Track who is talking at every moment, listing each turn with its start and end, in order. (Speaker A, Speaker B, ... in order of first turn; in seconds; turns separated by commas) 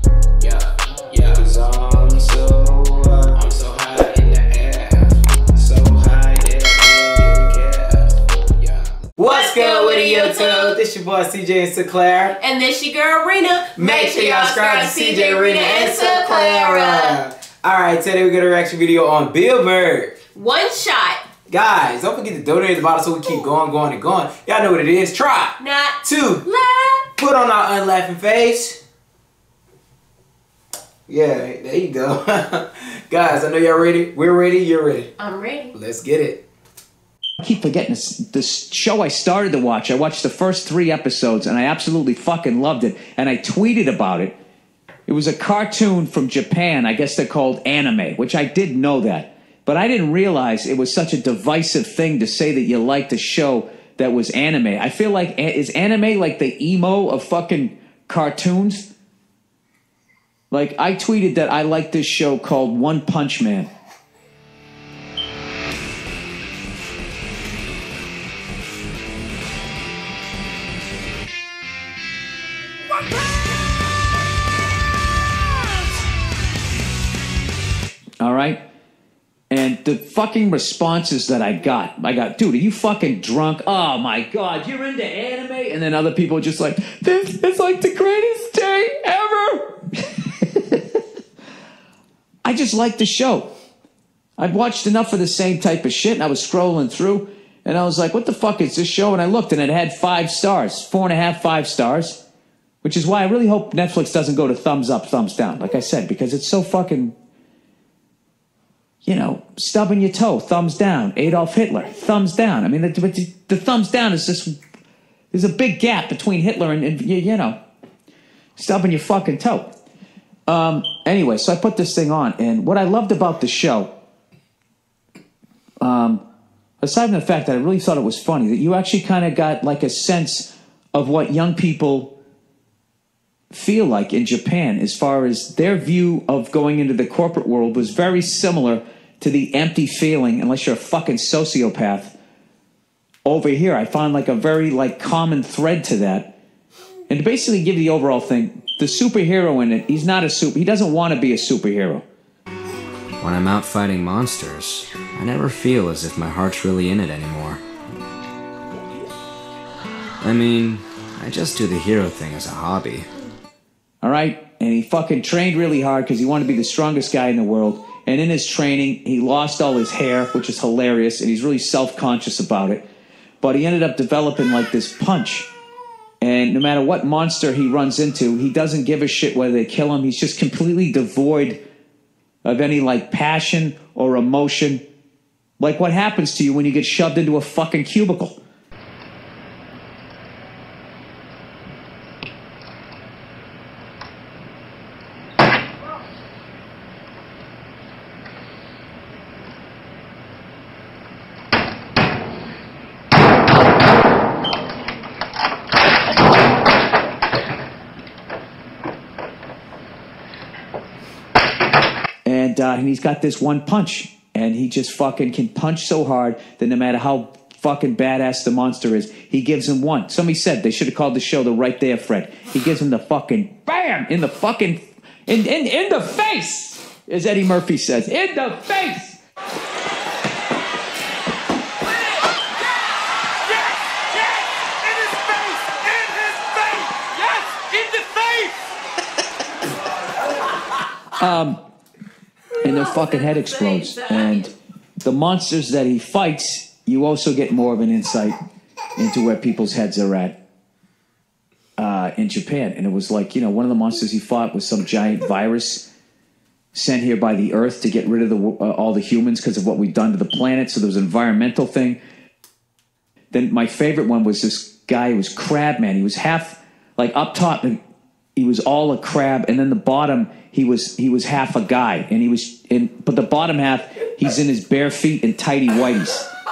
Speaker A: 0.4-12.4, Speaker B: 9.3-10.8, Speaker B: 12.4-17.2, Speaker A: 13.8-20.1, Speaker B: 20.3-21.2, Speaker A: 21.5-26.4, Speaker B: 25.6-27.1, Speaker A: 27.2-28.8, Speaker A: 31.1-35.1, Speaker B: 35.2-35.7, Speaker A: 35.7-36.4, Speaker C: 37.4-44.3, Speaker C: 45.1-58.9, Speaker C: 60.5-63.7, Speaker C: 78.2-78.6, Speaker C: 79.5-91.0, Speaker C: 92.4-93.5, Speaker C: 94.4-102.2, Speaker C: 102.8-107.1, Speaker C: 109.0-114.5, Speaker C: 115.3-117.6, Speaker C: 118.5-119.7, Speaker C: 120.5-123.9, Speaker C: 125.8-126.2, Speaker C: 126.8-132.1, Speaker C: 133.5-142.1, Speaker C: 143.2-146.3, Speaker C: 147.1-152.0, Speaker D: 153.2-157.6, Speaker D: 160.2-163.1, Speaker C: 164.0-172.8, Speaker C: 173.4-175.5, Speaker C: 176.2-181.6, Speaker C: 182.4-184.8, Speaker C: 185.6-188.4, Speaker C: 212.2-229.2, Speaker E: 235.2-236.0, Speaker E: 236.5-237.7, Speaker C: 241.2-241.6, Speaker B: 242.6-244.5, Speaker C: 242.6-248.4, Speaker C: 249.0-250.3, Speaker C: 251.8-255.8, Speaker C: 256.7-262.0, Speaker C: 263.3-267.8, Speaker C: 268.4-276.3